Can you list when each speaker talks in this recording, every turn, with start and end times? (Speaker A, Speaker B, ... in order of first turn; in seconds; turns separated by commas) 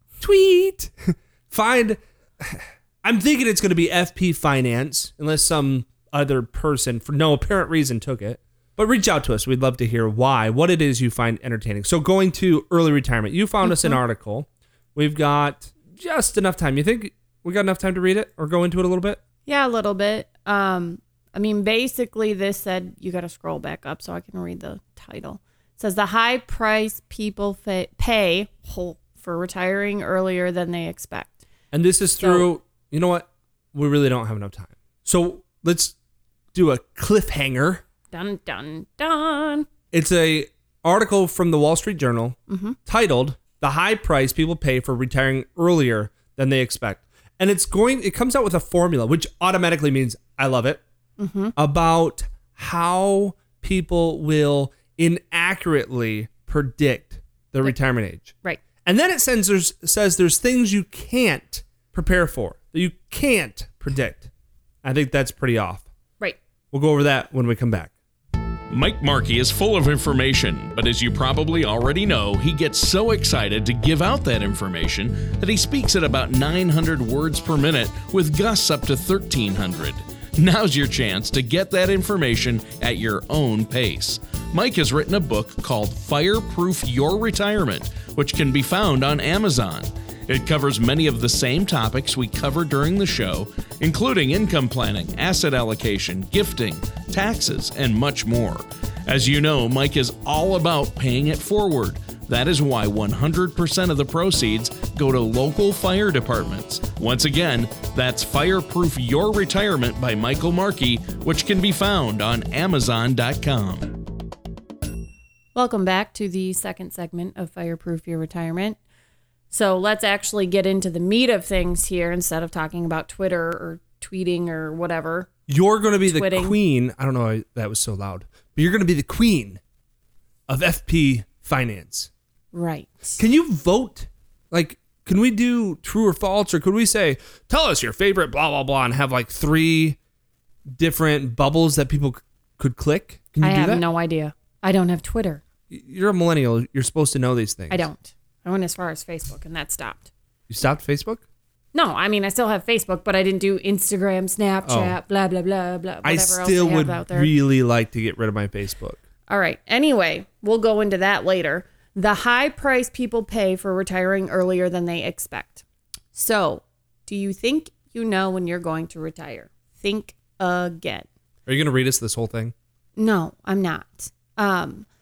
Speaker A: 0.2-19.2, Speaker B: 13.6-14.0, Speaker B: 19.4-31.4, Speaker A: 31.7-35.9, Speaker B: 32.2-32.5, Speaker A: 36.5-37.8, Speaker B: 38.1-39.7, Speaker A: 39.9-50.8, Speaker B: 42.5-42.8, Speaker B: 51.2-51.5, Speaker A: 51.5-64.3, Speaker A: 64.8-65.8, Speaker A: 66.7-67.9, Speaker C: 68.7-114.0, Speaker B: 115.5-118.8, Speaker B: 119.5-125.3, Speaker A: 125.5-129.6, Speaker B: 126.1-126.5, Speaker A: 130.5-132.1, Speaker B: 132.5-133.2, Speaker A: 133.2-140.0, Speaker A: 140.8-143.8, Speaker B: 143.4-145.4, Speaker A: 145.7-147.9, Speaker B: 147.7-150.1, Speaker A: 150.5-151.2, Speaker B: 151.7-157.3, Speaker A: 154.6-154.9, Speaker A: 156.0-159.0, Speaker B: 159.3-171.1, Speaker A: 171.4-172.5, Speaker B: 173.0-174.8